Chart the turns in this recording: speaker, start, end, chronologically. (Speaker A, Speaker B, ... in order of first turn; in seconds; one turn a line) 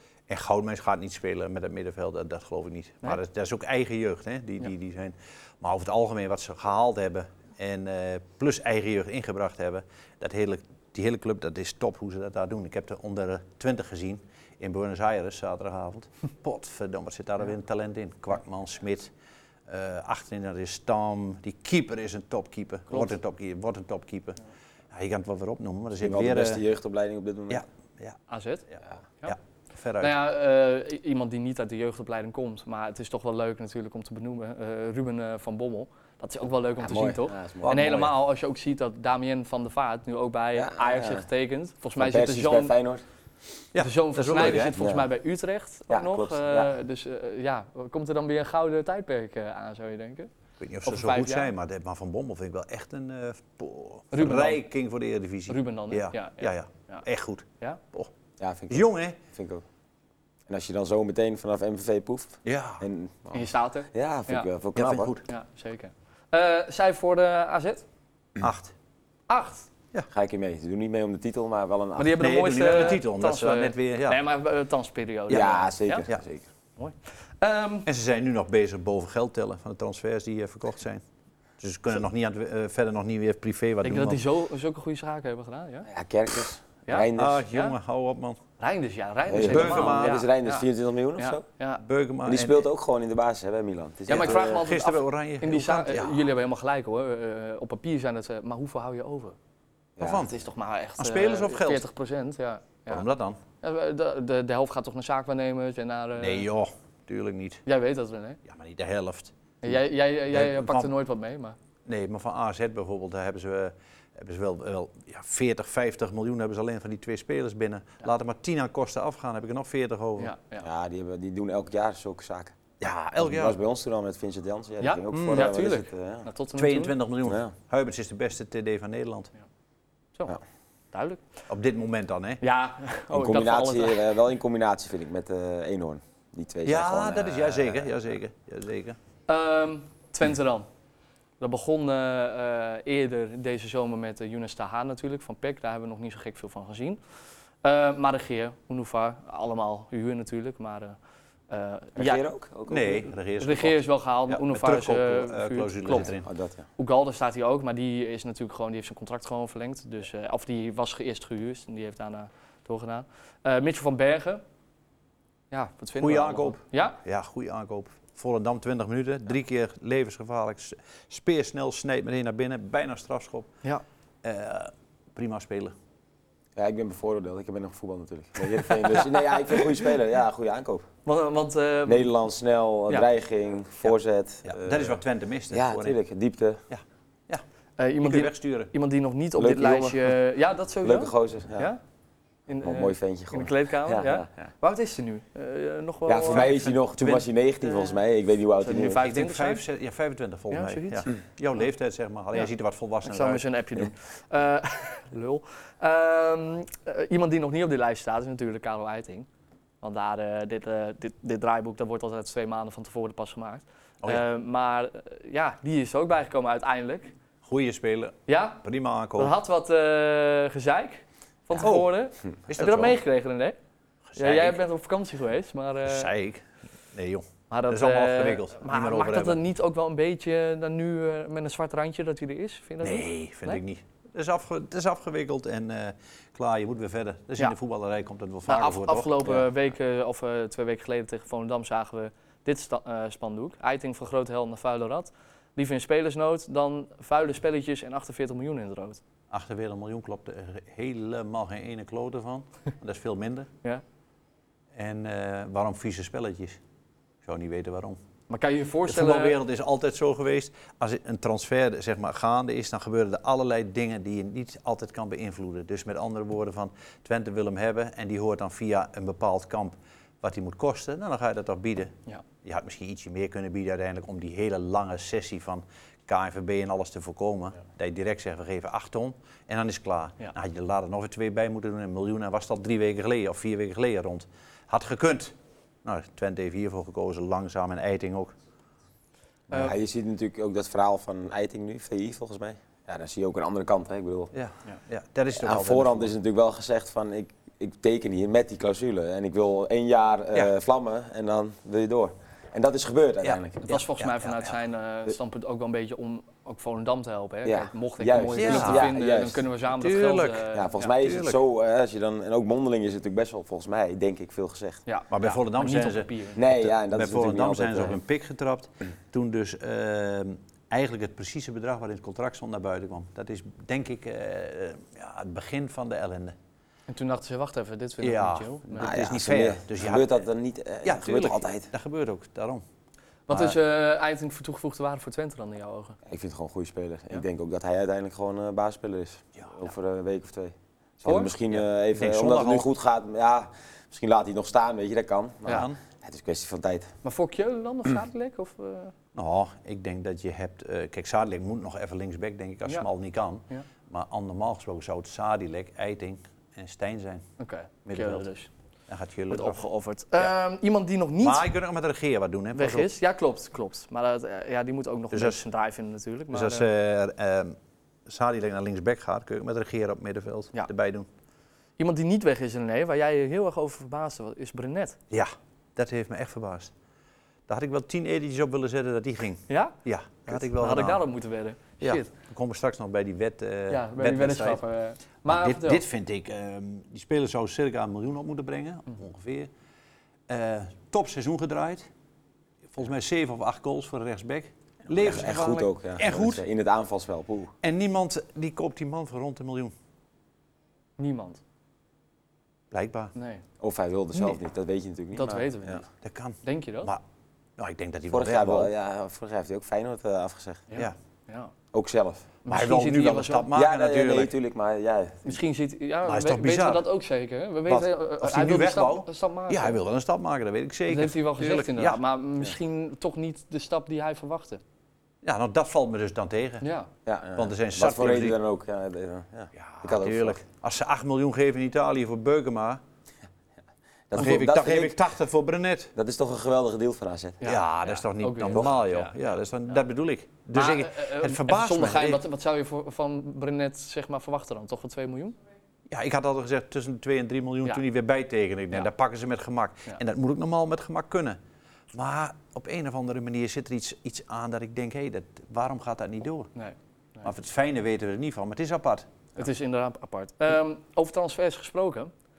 Speaker A: 0.3-19.1
Speaker A: 19.7-24.4
Speaker A: 24.9-26.6
Speaker B: 26.0-27.6
Speaker A: 27.5-28.2
Speaker C: 28.3-28.6
Speaker A: 28.7-30.2
Speaker C: 30.0-42.7
Speaker B: 36.8-38.0
Speaker A: 37.6-38.1
Speaker B: 40.5-41.2
Speaker B: 41.9-43.0
Speaker A: 43.7-44.8
Speaker C: 43.8-50.3
Speaker B: 44.7-45.1
Speaker B: 45.9-46.7
Speaker A: 50.6-58.1
Speaker C: 50.9-51.5
Speaker C: 54.1-54.6
Speaker C: 55.5-57.0
Speaker B: 58.4-59.6
Speaker A: 58.7-59.2
Speaker B: 60.5-65.1
Speaker A: 62.4-62.8
Speaker C: 63.3-64.5
Speaker A: 64.8-65.2
Speaker C: 65.3-67.8
Speaker A: 68.4-68.7
Speaker C: 69.3-69.7
Speaker B: 70.1-72.2
Speaker C: 72.0-76.0
Speaker A: 72.2-74.2
Speaker B: 75.3-76.5
Speaker C: 76.8-77.9
Speaker A: 77.8-81.0
Speaker A: 81.6-84.2
Speaker C: 83.8-85.9
Speaker B: 85.9-87.5
Speaker C: 86.9-87.8
Speaker A: 87.2-88.4
Speaker C: 88.6-90.7
Speaker B: 89.3-91.4
Speaker A: 89.4-90.2
Speaker C: 91.2-91.8
Speaker A: 91.8-92.7
Speaker B: 92.2-94.7
Speaker C: 94.1-99.3
Speaker A: 94.1-96.3
Speaker B: 100.0-100.3
Speaker A: 100.0-100.3
Speaker C: 100.2-103.0
Speaker A: 101.0-101.8
Speaker A: 102.9-103.4
Speaker C: 103.6-106.5
Speaker A: 106.2-107.6
Speaker C: 107.7-108.4
Speaker A: 108.4-109.3
Speaker C: 109.6-111.5
Speaker A: 110.3-110.9
Speaker A: 111.8-120.3
Speaker C: 120.2-120.7
Speaker B: 120.6-122.6
Speaker A: 122.8-123.6
Speaker B: 123.2-126.3
Speaker C: 124.8-127.0
Speaker A: 125.1-125.4
Speaker A: 126.5-129.3
Speaker B: 127.2-127.5
Speaker C: 130.9-131.2
Speaker A: 131.5-132.4
Speaker C: 132.4-134.0
Speaker B: 133.1-137.9
Speaker A: 136.6-139.0
Speaker C: 139.3-140.7
Speaker C: 141.4-147.0
Speaker C: 147.6-151.0
Speaker C: 151.5-152.2
Speaker B: 151.9-153.1
Speaker A: 152.7-156.3
Speaker C: 153.4-156.1
Speaker B: 156.0-156.7
Speaker C: 156.8-164.4
Speaker C: 165.5-167.0
Speaker A: 166.0-173.5
Speaker A: 174.2-175.7
Speaker B: 176.6-180.9
Speaker C: 181.1-182.1
Speaker B: 181.8-185.0
Speaker A: 184.4-186.0
Speaker B: 185.5-186.6
Speaker A: 186.7-187.4
Speaker C: 187.8-191.8
Speaker A: 188.0-188.7
Speaker B: 189.4-190.1
Speaker B: 190.8-191.7
Speaker C: 192.5-196.5
Speaker B: 192.6-194.5
Speaker B: 196.1-199.0
Speaker A: 196.3-197.9
Speaker C: 198.6-199.6
Speaker A: 198.9-203.5
Speaker C: 200.5-201.1
Speaker C: 203.0-209.3
Speaker C: 209.8-217.1
Speaker A: 217.4-219.3
Speaker C: 218.3-218.6
Speaker C: 219.2-223.6
Speaker A: 221.6-221.9
Speaker A: 222.5-223.0
Speaker A: 224.1-224.6
Speaker C: 224.2-226.1
Speaker A: 225.8-229.4
Speaker C: 227.5-233.6
Speaker A: 232.8-239.4
Speaker C: 238.4-249.0
Speaker A: 249.3-253.5
Speaker A: 254.7-256.6
Speaker A: 257.2-258.0
Speaker C: 258.3-259.4
Speaker A: 258.9-288.3
Speaker B: 289.5-294.3
Speaker A: 294.3-296.1
Speaker B: 295.3-303.7
Speaker A: 303.2-304.5
Speaker C: 303.7-310.9
Speaker B: 307.4-309.4
Speaker A: 308.4-308.9
Speaker A: 309.8-311.4
Speaker B: 310.5-314.8
Speaker C: 314.9-316.4
Speaker A: 315.1-326.3
Speaker B: 316.4-318.0
Speaker C: 326.9-328.9
Speaker A: 328.0-330.2
Speaker B: 328.8-331.7
Speaker A: 330.8-332.6
Speaker C: 333.3-335.9
Speaker B: 336.1-346.9
Speaker C: 341.1-341.3
Speaker A: 341.5-342.6
Speaker A: 345.5-345.8
Speaker C: 347.0-348.9
Speaker A: 349.1-357.3
Speaker C: 357.4-358.5
Speaker A: 357.9-358.3
Speaker A: 358.9-359.6
Speaker C: 359.3-361.4
Speaker A: 361.2-362.9
Speaker C: 362.5-366.7
Speaker A: 365.1-365.4
Speaker A: 366.3-367.6
Speaker A: 368.1-371.1
Speaker C: 371.8-375.0
Speaker A: 375.1-376.7
Speaker A: 377.5-381.0
Speaker C: 379.5-379.8
Speaker C: 380.3-382.1
Speaker A: 381.8-384.6
Speaker C: 383.7-385.8
Speaker A: 385.2-389.5
Speaker A: 390.3-391.9
Speaker A: 392.7-396.4
Speaker B: 395.0-397.5
Speaker A: 397.6-399.7
Speaker C: 401.0-401.4
Speaker A: 402.7-403.1
Speaker C: 403.1-403.4
Speaker B: 403.6-405.8
Speaker C: 405.1-405.8
Speaker A: 406.0-407.0
Speaker C: 406.4-406.9
Speaker A: 407.6-408.7
Speaker B: 408.1-410.7
Speaker C: 410.7-411.5
Speaker B: 411.7-412.3
Speaker C: 412.4-413.5
Speaker A: 412.5-414.3
Speaker B: 413.5-415.4
Speaker C: 415.2-419.8
Speaker A: 416.1-416.9
Speaker A: 417.7-422.0
Speaker C: 420.9-424.6
Speaker A: 425.2-426.6
Speaker C: 426.6-426.9
Speaker B: 427.1-430.4
Speaker A: 427.4-428.4
Speaker A: 429.6-432.8
Speaker B: 434.1-435.0
Speaker A: 434.1-435.9
Speaker B: 435.9-437.4
Speaker C: 437.4-439.1
Speaker A: 437.4-442.2
Speaker C: 440.5-445.4
Speaker A: 445.9-451.4
Speaker A: 451.9-456.5
Speaker C: 456.5-457.3
Speaker A: 457.2-459.1
Speaker C: 459.4-462.1